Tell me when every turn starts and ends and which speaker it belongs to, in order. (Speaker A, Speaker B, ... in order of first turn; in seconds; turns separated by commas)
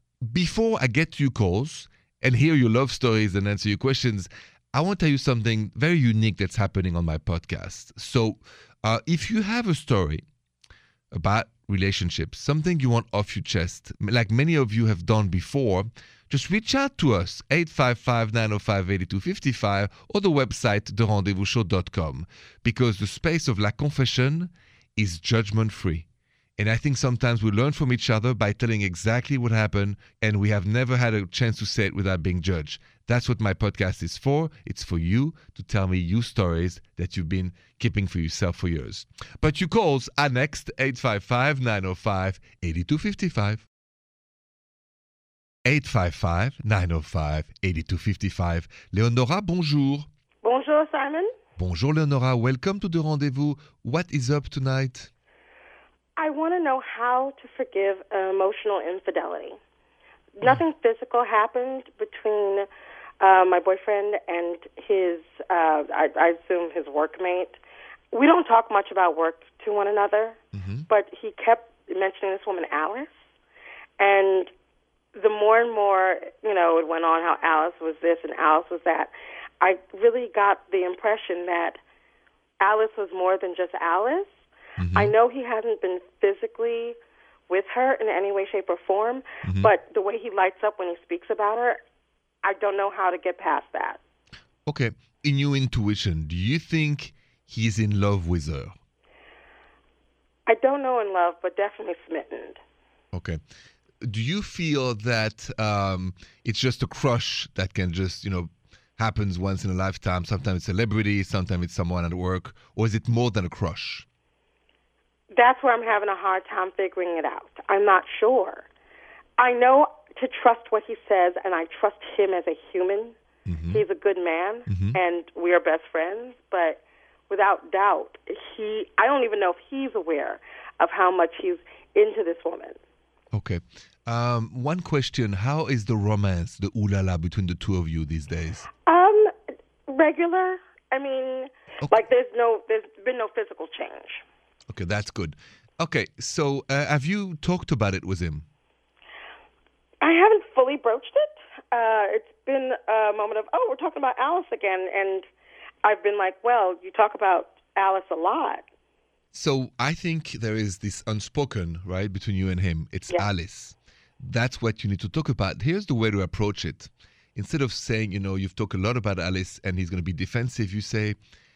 Speaker A: 0.2-10.2, Speaker A: 11.1-26.1, Speaker A: 26.6-43.6, Speaker A: 45.6-50.1, Speaker B: 50.4-51.3, Speaker A: 51.6-55.1, Speaker B: 56.2-59.6, Speaker B: 60.4-62.7, Speaker B: 63.2-67.6, Speaker B: 68.1-70.3, Speaker A: 70.5-70.9, Speaker B: 70.9-73.1, Speaker B: 74.0-74.5, Speaker B: 75.1-81.8, Speaker B: 82.6-84.3, Speaker A: 84.8-85.1, Speaker B: 84.9-87.0, Speaker B: 87.5-91.8, Speaker A: 89.4-89.7, Speaker B: 92.4-94.0, Speaker A: 94.7-98.7, Speaker B: 100.5-102.6, Speaker A: 103.1-103.4, Speaker A: 104.0-114.0, Speaker B: 115.3-118.7, Speaker B: 119.4-123.1, Speaker A: 123.5-123.8, Speaker B: 123.7-132.8, Speaker A: 124.7-125.0, Speaker A: 133.3-138.7, Speaker B: 138.9-139.3, Speaker B: 139.9-144.2, Speaker A: 144.7-148.4, Speaker B: 150.0-155.2, Speaker B: 155.8-158.6, Speaker A: 159.3-171.2